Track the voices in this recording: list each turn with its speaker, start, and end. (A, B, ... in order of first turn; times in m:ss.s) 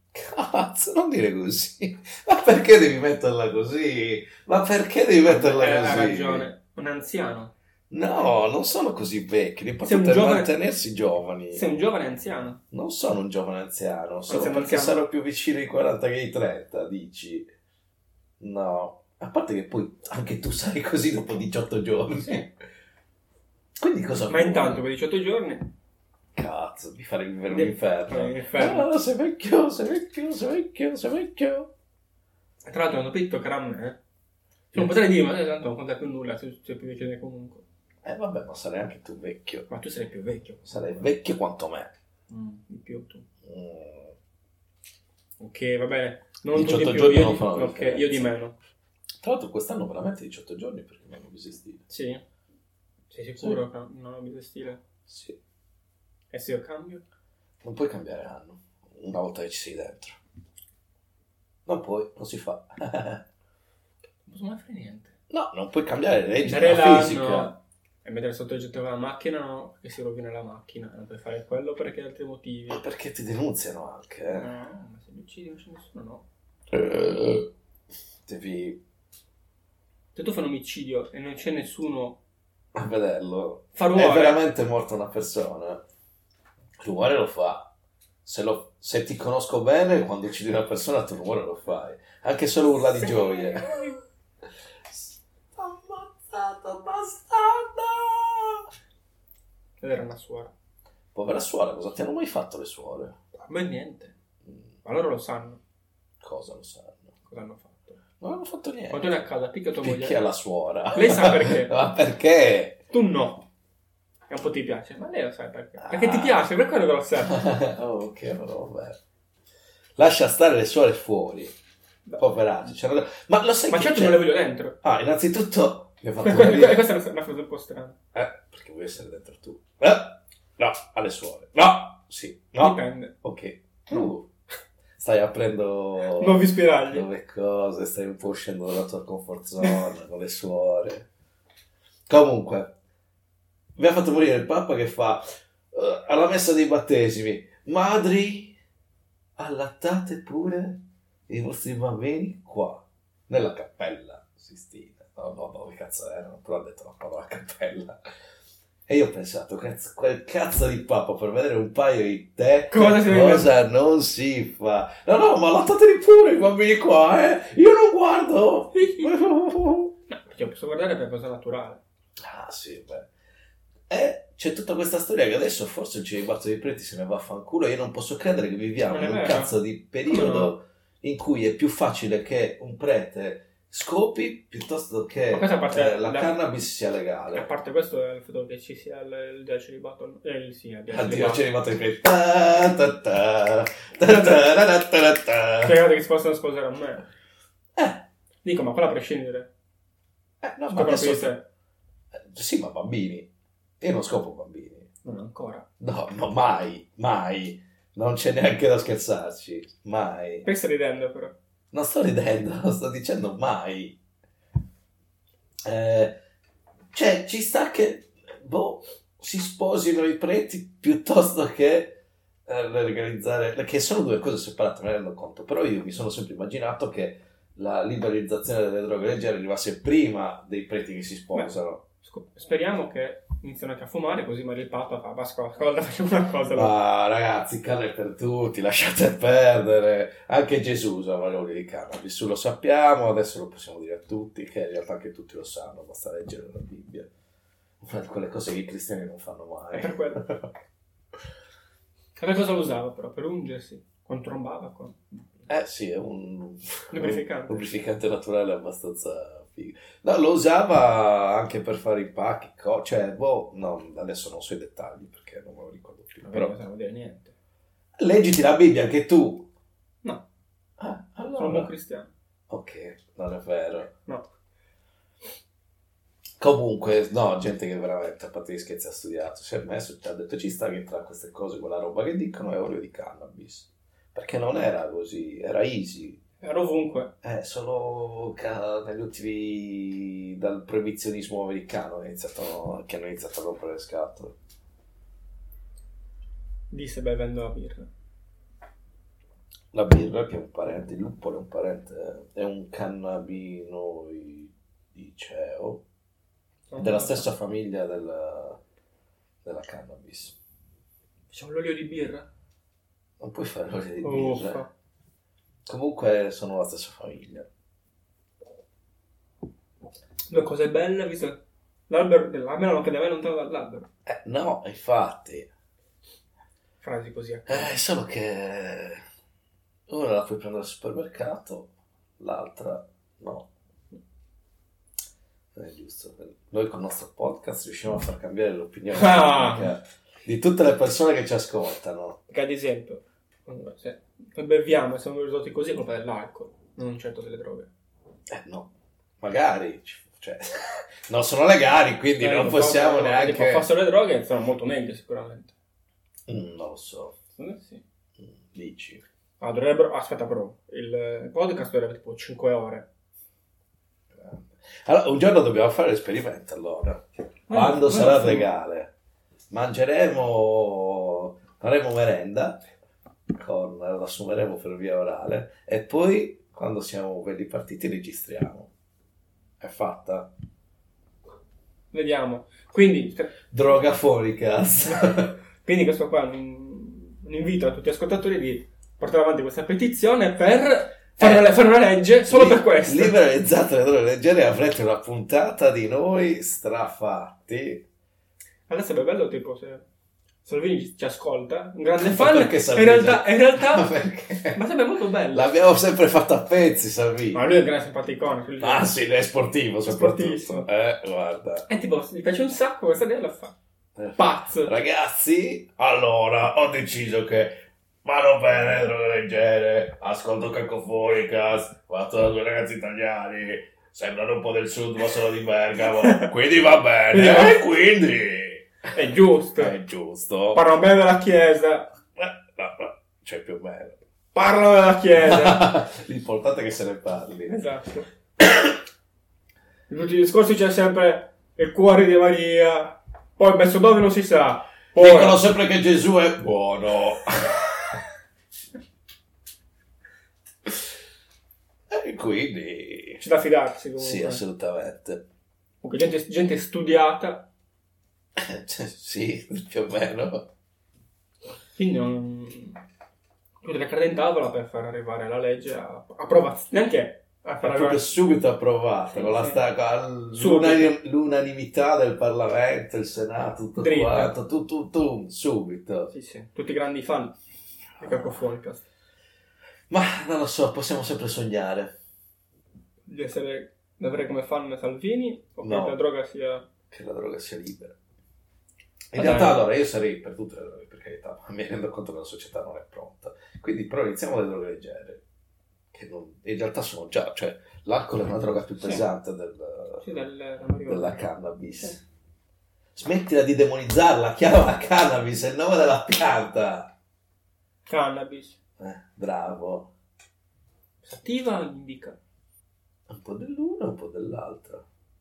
0:00.1-0:06.5 A
0:05.3-0:07.5 B
0:07.9-0:11.6 A
0:09.8-0:10.5 B
0:11.5-0:12.6 B
0:12.7-0:17.5 A
0:14.3-0:15.0 B
0:18.4-0:22.5 A
0:22.2-0:22.4 B
0:23.8-0:24.8 A
0:24.3-0:25.7 B
0:26.3-0:31.7 A
0:27.5-0:28.9 B
0:32.6-0:34.0 B
0:34.7-0:35.1 A
0:34.7-0:37.6 B
0:38.0-0:39.7 A
0:39.7-0:40.8 B
0:40.6-0:41.9 A
0:42.3-0:43.2 B
0:43.4-0:44.1 A
0:45.4-0:48.5 B
0:46.5-0:48.3 A
0:49.2-0:51.8 A
0:51.9-0:52.2 B
0:53.1-0:54.8 B
0:55.1-0:55.4 A
0:56.3-0:57.0 B
0:57.6-1:00.2 A
1:01.6-1:03.2 A
1:04.2-1:05.2 B
1:05.3-1:07.5 A
1:06.4-1:12.8 B
1:12.7-1:14.5 A
1:14.3-1:16.2 B
1:16.7-1:17.5 A
1:18.3-1:18.8 A
1:20.1-1:22.2 B
1:22.7-1:25.8 A
1:23.7-1:24.4 B
1:26.8-1:27.7 A
1:28.2-1:33.8 A
1:33.0-1:34.0 B
1:34.9-1:38.7 A
1:39.8-1:40.5 B
1:41.1-1:43.2 A
1:43.3-1:44.1 B
1:44.8-1:45.6 B
1:46.2-1:47.1 A
1:47.2-1:48.0 B
1:48.2-1:49.2 A
1:48.9-1:50.2 B
1:49.8-1:52.8 A
1:50.9-1:51.7 B
1:52.9-1:53.5 B
1:54.3-1:57.4 B
1:55.8-1:56.4 A
1:57.2-1:59.0 A
2:00.0-2:01.5 A
2:02.2-2:04.2 A
2:03.7-2:04.8 B
2:04.8-2:06.8 A
2:06.2-2:08.0 B
2:08.1-2:14.3 A
2:12.6-2:13.1 B
2:15.0-2:21.1 A
2:16.1-2:17.0 B
2:22.1-2:22.7 A
2:23.8-2:28.6 A
2:29.4-2:38.0 A
2:38.9-2:49.9 A
2:42.7-2:43.5 B
2:48.7-2:49.2 B
2:50.1-2:51.8 B
2:52.2-2:53.1 A
2:53.9-3:07.5 A
2:58.9-2:59.5 B
3:00.1-3:00.5 B
3:05.3-3:06.3 B
3:07.3-3:11.4 B
3:10.9-3:15.8 A
3:14.0-3:14.4 B
3:15.6-3:17.0 B
3:17.8-3:18.0 A
3:18.4-3:19.5 B
3:20.4-3:21.3 A
3:20.7-3:21.4 B
3:22.2-3:23.3 A
3:23.8-3:24.9 A
3:25.0-3:25.6 B
3:25.8-3:30.4 A
3:30.4-3:31.3 B
3:31.7-3:34.0 A
3:35.6-3:36.2 A
3:36.9-3:51.8 A
3:51.3-3:56.7 B
3:56.5-4:07.1 A
4:07.8-4:10.5 A
4:09.7-4:10.2 B
4:12.2-4:15.2 B
4:15.5-4:26.5 A
4:16.9-4:17.6 B
4:26.2-4:27.3 B
4:28.0-4:29.5 A
4:30.8-4:31.7 A
4:31.3-4:32.1 B
4:32.5-4:33.9 A
4:36.4-4:46.2 A
4:46.4-4:47.1 B
4:47.2-4:54.4 A
4:56.7-4:57.9 B
4:59.7-5:05.8 A
5:06.7-5:07.3 B
5:06.8-5:08.6 A
5:09.4-5:10.4 A
5:11.3-5:12.3 B
5:13.2-5:14.6 A
5:14.0-5:14.7 B
5:15.6-5:17.5 A
5:20.3-5:23.9 B
5:24.1-5:25.5 A
5:26.8-5:27.7 B
5:27.5-5:29.0 A
5:29.9-5:33.5 A
5:35.5-5:42.2 A
5:38.9-5:39.7 B
5:42.3-5:47.7 B
5:48.3-5:53.6 A
5:52.2-5:55.5 B
5:56.3-5:57.2 A
5:57.3-5:57.8 B
5:58.2-5:59.0 A
5:59.4-6:02.9 B
6:04.2-6:08.9 A
6:07.5-6:08.5 B
6:09.5-6:12.6 A
6:13.3-6:18.7 A
6:19.6-6:20.3 A
6:21.9-6:23.4 B
6:23.5-6:25.3 A
6:25.6-6:33.2 B
6:31.2-6:31.5 A
6:32.2-6:37.8 A
6:38.7-6:39.8 B
6:40.4-6:43.9 B
6:42.0-6:44.6 A
6:44.5-6:45.5 B
6:45.3-6:47.4 A
6:47.3-6:48.9 B
6:48.6-6:51.7 A
6:49.8-6:50.7 B
6:51.7-6:53.5 B
6:54.0-7:09.0 A
6:54.2-6:54.8 B
7:06.0-7:06.3 B
7:07.1-7:07.6 B
7:08.9-7:09.7 B
7:09.6-7:10.6 A
7:10.5-7:11.9 B
7:12.2-7:14.0 A
7:14.3-7:15.6 B
7:15.2-7:17.5 A
7:17.5-7:18.1 B
7:18.4-7:18.7 A
7:19.9-7:25.4 B
7:25.0-7:28.0 A
7:31.9-7:33.2 A
7:33.2-7:34.4 B
7:34.0-7:35.2 A
7:35.8-7:37.5 B
7:38.4-7:40.5 A
7:41.8-7:42.8 B
7:43.6-7:48.1 B
7:47.6-7:56.1 A
7:49.1-7:49.6 B
7:50.3-7:51.0 B
7:53.8-7:54.3 B
7:56.1-7:57.4 B
7:58.0-7:58.3 A
7:58.0-7:58.8 B
7:59.9-8:02.0 A
8:03.1-8:06.6 B
8:05.6-8:06.0 A
8:06.9-8:08.0 A
8:09.1-8:15.2 A
8:09.1-8:09.7 B
8:15.9-8:20.0 A
8:18.8-8:19.0 B
8:20.0-8:21.2 B
8:20.8-8:22.0 A
8:22.9-8:26.9 A
8:27.8-8:28.6 B
8:28.8-8:29.9 A
8:31.0-8:32.2 B
8:33.1-8:34.8 A